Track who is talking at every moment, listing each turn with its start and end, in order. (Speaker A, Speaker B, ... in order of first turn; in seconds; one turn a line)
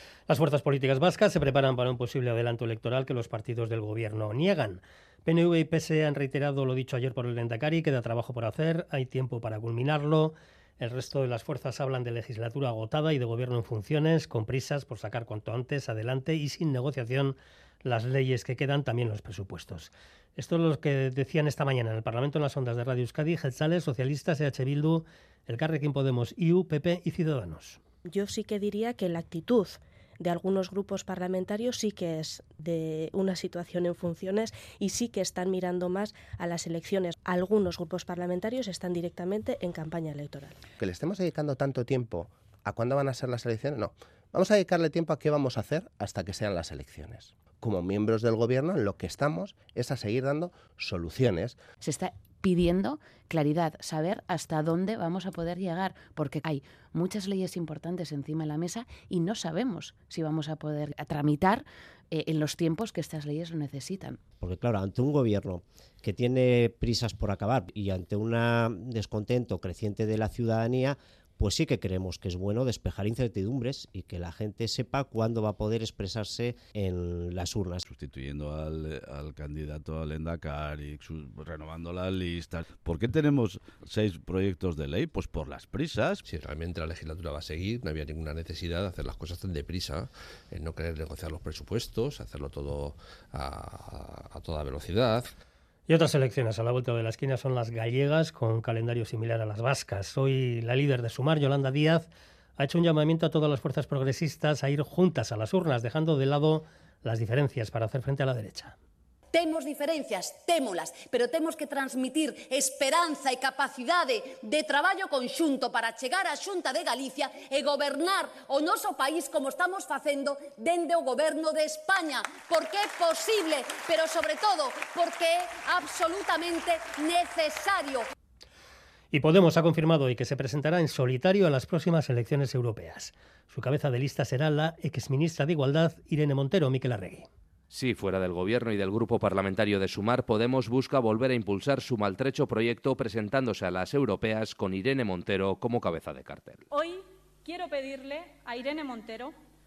Speaker A: 0.3-27.8
Speaker B: 28.1-40.6
Speaker C: 40.8-51.5
Speaker D: 51.8-64.3
Speaker E: 64.4-77.8
Speaker F: 77.8-86.2
Speaker G: 86.2-95.3
Speaker A: 95.9-108.7
Speaker H: 109.3-128.1
Speaker A: 129.1-137.3
Speaker I: 137.7-146.6
Speaker J: 146.7-149.3